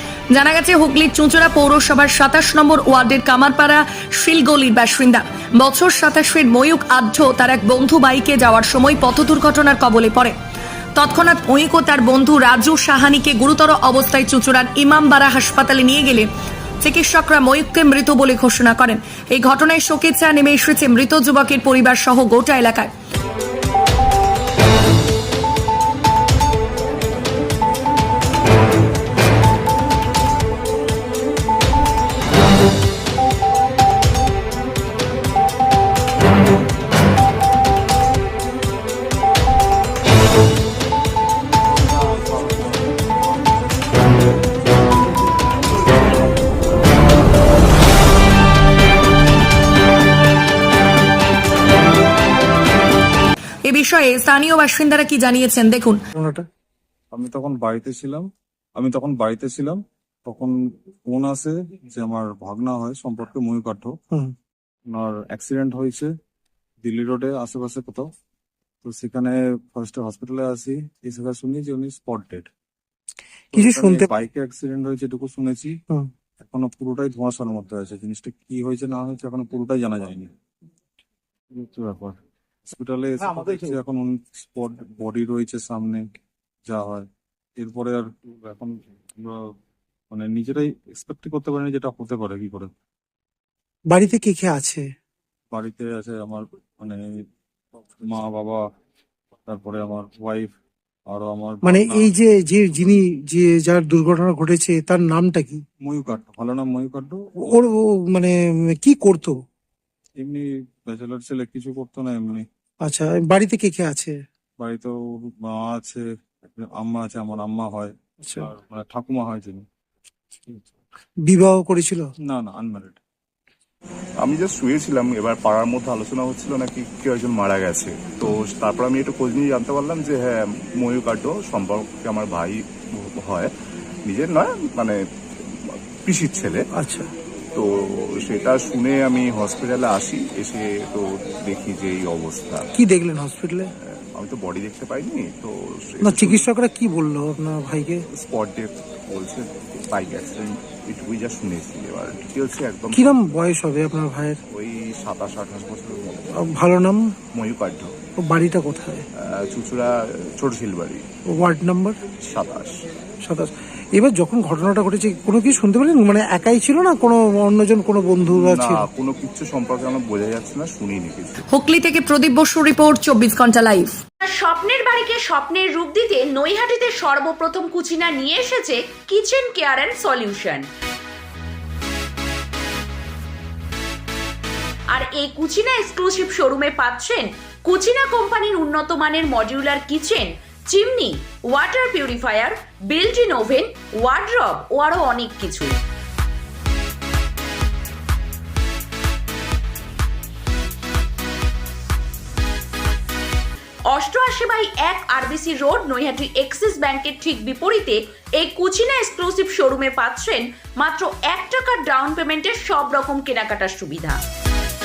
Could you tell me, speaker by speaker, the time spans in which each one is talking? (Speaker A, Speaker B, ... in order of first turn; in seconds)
Speaker A: 0.3-10.3, 11.0-16.3, 16.8-22.9, 53.7-56.0, 171.5-174.0
Speaker B: 56.2-56.5, 73.5-74.1, 93.9-94.8, 101.6-105.6, 107.4-109.3, 112.8-114.2, 118.2-118.5, 121.2-122.1, 136.8-137.1, 142.8-143.7, 146.0-148.1, 152.9-154.4, 156.3-157.1, 158.2-159.0, 161.3-162.0, 163.2-168.9
Speaker C: 57.1-60.5, 61.1-63.9, 64.9-66.1, 66.8-68.1, 68.8-72.5, 73.5-75.7, 76.4-80.3, 81.5-86.0, 86.7-87.1, 87.6-89.4, 90.1-92.7, 95.5-97.0, 97.8-98.6, 99.5-100.5, 101.1-102.1, 105.8-107.4, 110.2-112.4, 114.6-119.7, 120.5-120.8, 122.3-123.0
Speaker D: 124.2-133.5, 134.1-136.7, 137.5-142.7, 143.8-146.5, 148.1-153.4, 154.5-156.6, 157.3-157.9, 159.2-161.0, 162.2-162.8, 168.3-171.4
Speaker E: 174.2-180.7, 184.9-195.8, 203.9-214.2